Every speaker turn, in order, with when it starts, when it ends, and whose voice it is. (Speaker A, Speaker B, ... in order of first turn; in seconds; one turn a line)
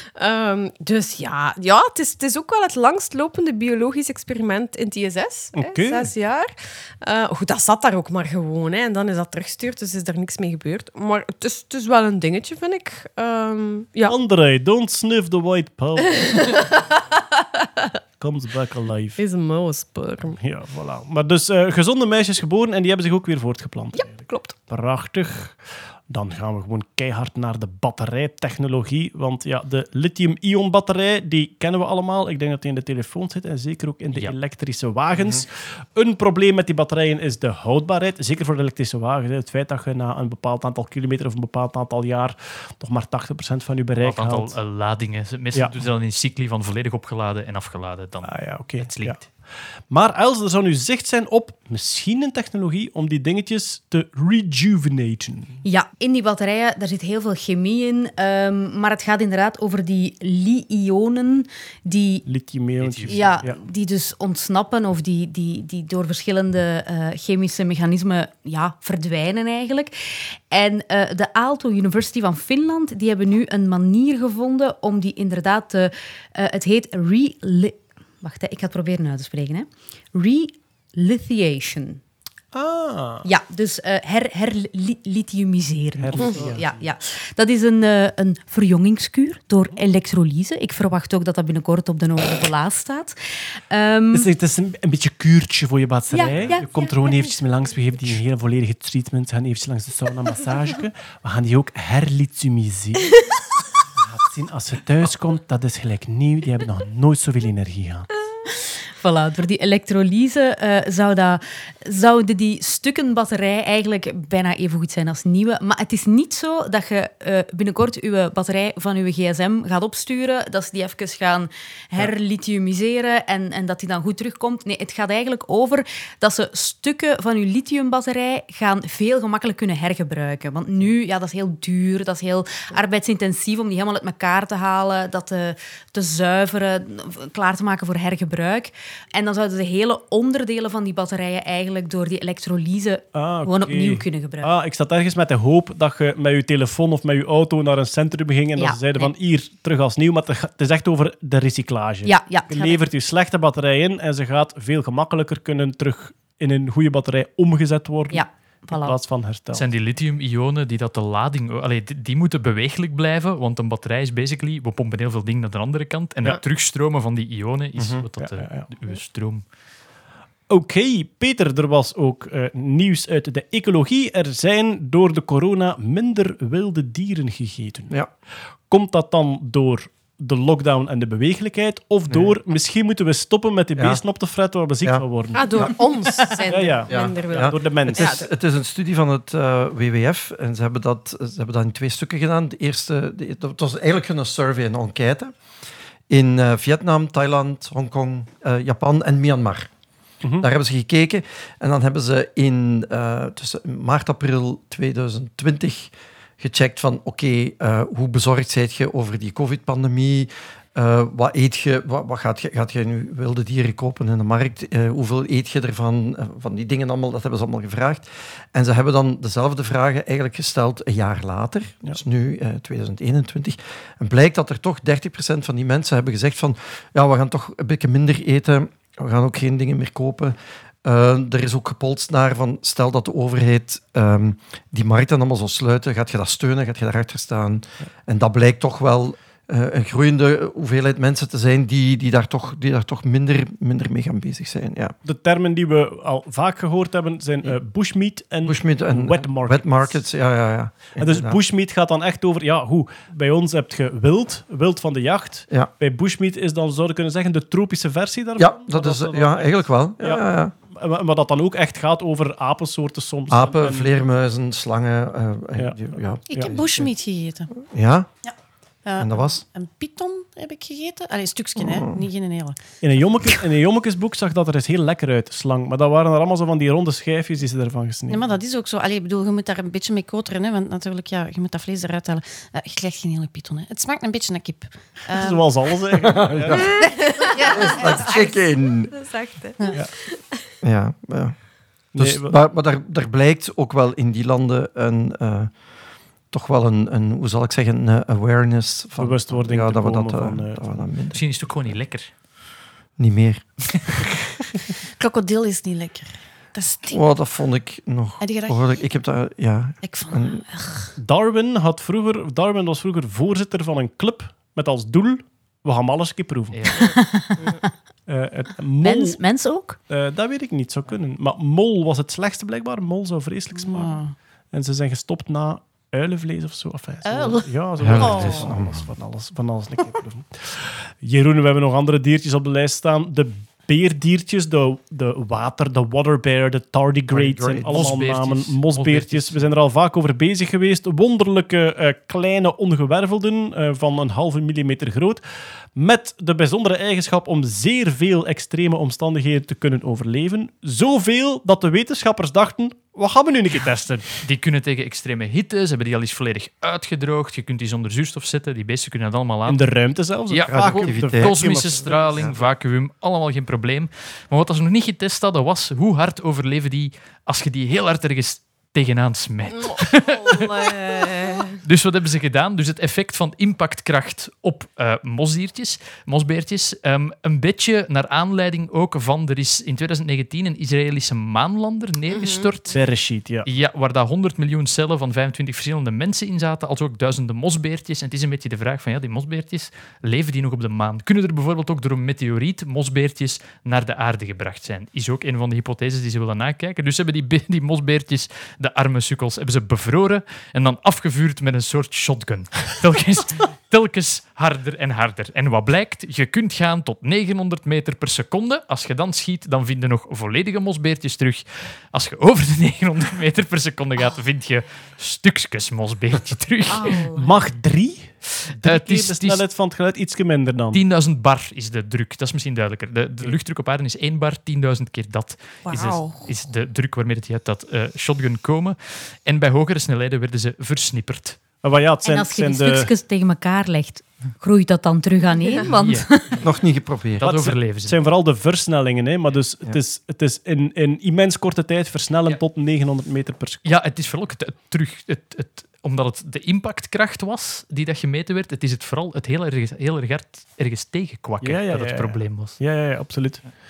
Speaker A: 0.1-14.1
Speaker B: 5.5-6.1
Speaker B: 14.1-16.3
Speaker A: 16.0-17.9
Speaker B: 18.2-19.2
Speaker A: 19.2-20.4
Speaker B: 20.4-44.5
Speaker A: 23.9-24.5
Speaker C: 44.0-49.3
Speaker B: 48.2-49.2
Speaker B: 49.9-55.6
Speaker D: 55.6-62.3
Speaker B: 62.2-63.6
Speaker C: 62.8-63.4
Speaker D: 63.0-82.0
Speaker B: 82.5-83.3
Speaker D: 83.2-94.3
Speaker B: 86.0-86.8
Speaker A: 86.2-86.5
Speaker B: 94.1-103.1
Speaker D: 96.1-97.2
Speaker B: 104.0-108.1
Speaker D: 108.6-144.5
Speaker B: 143.1-159.6
Speaker D: 148.6-149.1
Speaker D: 152.0-152.8
Speaker D: 158.1-159.0
Speaker C: 159.5-169.4
Speaker E: 167.8-168.0
Speaker B: 168.2-168.7
Speaker B: 170.5-177.9
Speaker B: 178.7-185.7
Speaker E: 183.8-184.0
Speaker A: 185.3-188.3
Speaker B: 186.5-188.2
Speaker E: 186.9-195.3
Speaker E: 196.1-199.7
Speaker E: 200.4-244.9
Speaker B: 245.0-250.0
Speaker E: 248.4-251.4
Speaker B: 251.0-263.9
Speaker E: 258.4-260.5
Speaker E: 263.3-266.9
Speaker B: 265.6-266.5
Speaker F: 266.3-267.5
Speaker E: 267.6-268.1
Speaker F: 268.2-272.6
Speaker E: 269.0-269.4
Speaker E: 271.6-272.0
Speaker B: 272.8-278.2
Speaker F: 278.1-286.8
Speaker B: 285.1-286.6
Speaker E: 286.1-286.6
Speaker A: 286.8-290.4
Speaker F: 287.3-288.3
Speaker E: 287.6-288.9
Speaker E: 290.6-291.4
Speaker E: 291.9-295.5
Speaker B: 291.9-292.4
Speaker E: 296.3-301.2
Speaker B: 299.0-300.8
Speaker C: 301.1-302.1
Speaker E: 303.0-303.4
Speaker F: 305.0-307.0
Speaker E: 306.9-310.4
Speaker F: 308.2-308.8
Speaker F: 309.8-310.9
Speaker B: 311.0-316.6
Speaker C: 316.5-316.9
Speaker D: 316.8-317.7
Speaker B: 318.1-319.2
Speaker D: 318.8-319.8
Speaker B: 319.9-324.0
Speaker F: 323.5-324.1
Speaker B: 324.5-345.2
Speaker F: 327.0-328.5
Speaker E: 327.8-328.9
Speaker E: 337.1-338.0
Speaker C: 337.7-339.5
Speaker B: 345.7-354.1
Speaker C: 354.2-359.7
Speaker B: 359.5-362.2
Speaker C: 360.3-382.8
Speaker E: 360.5-362.5
Speaker A: 369.5-371.6
Speaker A: 382.1-382.8
Speaker B: 382.7-383.4
Speaker C: 383.4-417.1
Speaker A: 416.7-417.4
Speaker B: 417.1-420.8
Speaker C: 418.5-419.4
Speaker C: 420.7-431.4
Speaker F: 425.7-426.1
Speaker B: 431.6-432.9
Speaker D: 432.0-436.4
Speaker C: 435.7-436.1
Speaker E: 436.4-437.3
Speaker C: 437.2-438.0
Speaker B: 437.2-443.7
Speaker C: 443.6-452.6
Speaker B: 451.4-453.5